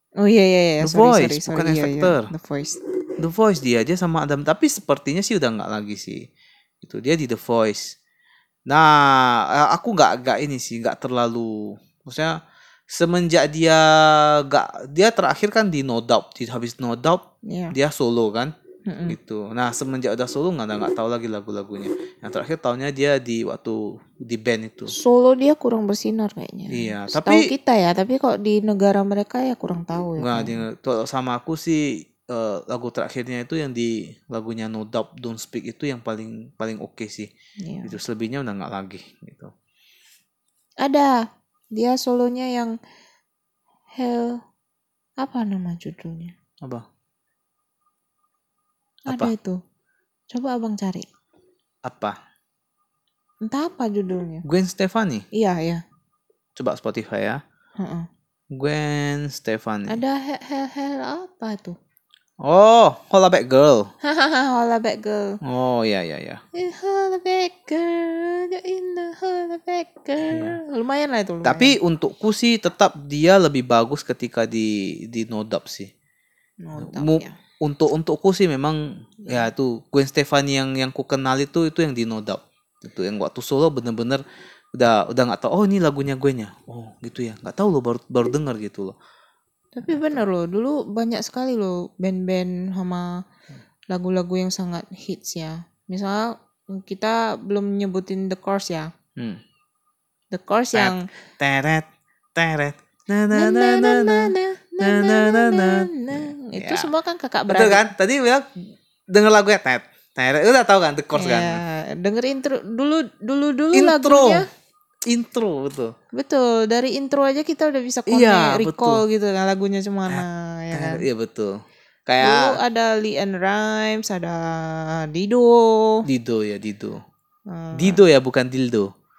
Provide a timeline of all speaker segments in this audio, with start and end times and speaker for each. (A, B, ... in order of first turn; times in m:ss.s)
0:00.2-0:02.8 A
0:00.8-0:02.3 B
0:03.2-0:06.3 B
0:06.8-0:08.0 B
0:08.7-0:12.4 B
0:12.9-0:18.5 B
0:17.5-0:17.8 A
0:18.9-0:19.2 A
0:19.1-0:24.9 B
0:24.9-0:30.6 A
0:26.7-0:27.5 B
0:30.2-0:37.3 B
0:37.6-0:38.0 A
0:37.8-0:39.5 B
0:40.8-0:42.8 A
0:44.0-0:44.4 A
0:45.2-0:46.4 A
0:49.1-0:49.6 A
0:50.3-0:51.1 A
0:51.8-0:52.2 B
0:53.4-0:54.4 A
0:54.4-0:55.3 B
0:55.3-0:55.8 A
0:56.6-0:57.4 B
0:57.8-0:58.1 A
0:58.5-1:00.0 B
0:59.9-1:01.8 A
1:02.4-1:03.9 B
1:04.0-1:05.4 A
1:05.4-1:06.4 B
1:06.6-1:11.8 A
1:10.2-1:10.6 B
1:11.4-1:15.9 B
1:16.6-1:17.3 A
1:16.8-1:24.2 B
1:24.7-1:29.0 B
1:29.8-1:33.2 A
1:29.9-1:30.2 B
1:33.9-1:38.9 A
1:39.2-1:39.4 B
1:40.3-1:41.1 A
1:40.7-1:46.9 B
1:43.3-1:47.9 A
1:47.5-1:48.5 B
1:49.1-1:51.6 B
1:51.1-1:54.5 A
1:53.7-1:54.4 B
1:55.1-1:55.9 B
1:56.1-2:01.1 A
1:58.1-1:59.0 B
2:00.1-2:02.6 B
2:02.2-2:06.1 A
2:06.0-2:07.0 B
2:07.5-2:08.0 A
2:07.8-2:08.9 B